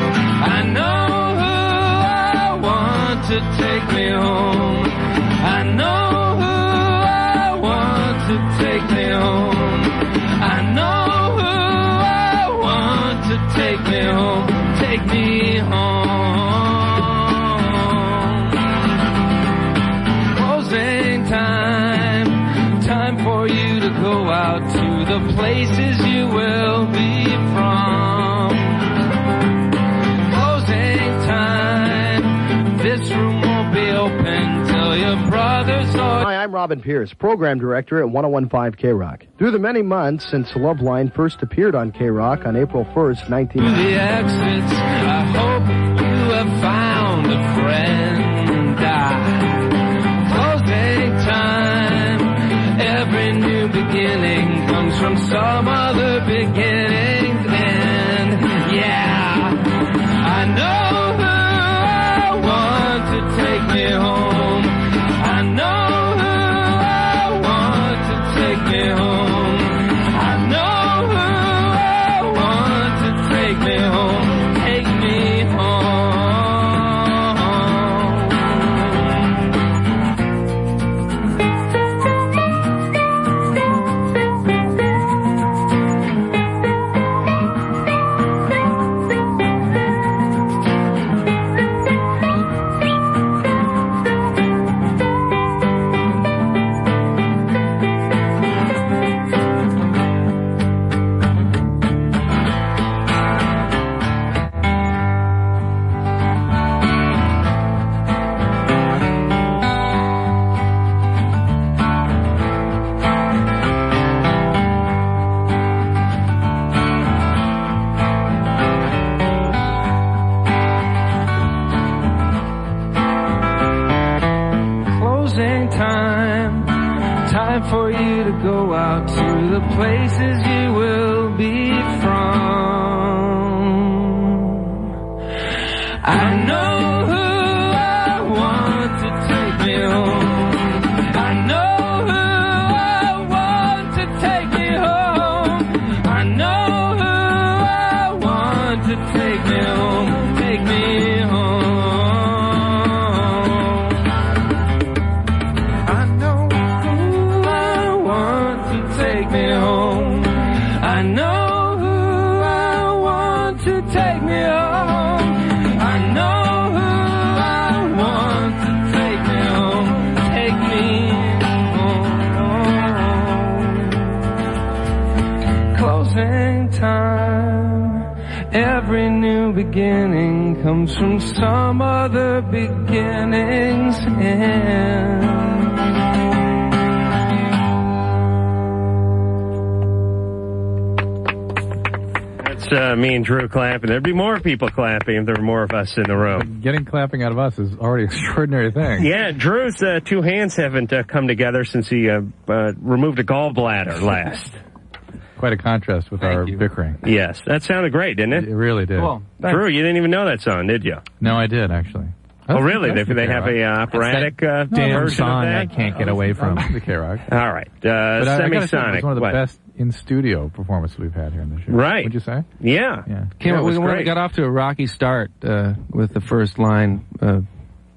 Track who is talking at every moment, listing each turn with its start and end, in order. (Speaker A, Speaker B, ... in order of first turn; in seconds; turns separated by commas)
Speaker A: 0.4-18.6, Speaker A: 20.3-29.0, Speaker A: 30.3-36.2, Speaker B: 36.2-43.9, Speaker A: 43.6-79.1, Speaker A: 124.8-134.8, Speaker A: 136.0-154.0, Speaker A: 155.9-174.2, Speaker A: 175.7-185.6, Speaker C: 192.4-196.5, Speaker D: 196.3-199.1, Speaker C: 199.0-204.6, Speaker D: 205.4-207.0, Speaker E: 206.2-206.6, Speaker C: 207.0-208.5, Speaker D: 208.3-209.2, Speaker E: 208.9-209.6, Speaker C: 209.4-211.0, Speaker D: 211.2-217.2, Speaker C: 212.5-215.7, Speaker C: 217.3-219.4, Speaker D: 218.2-222.4, Speaker C: 221.7-224.1, Speaker D: 223.1-223.3, Speaker E: 223.4-227.4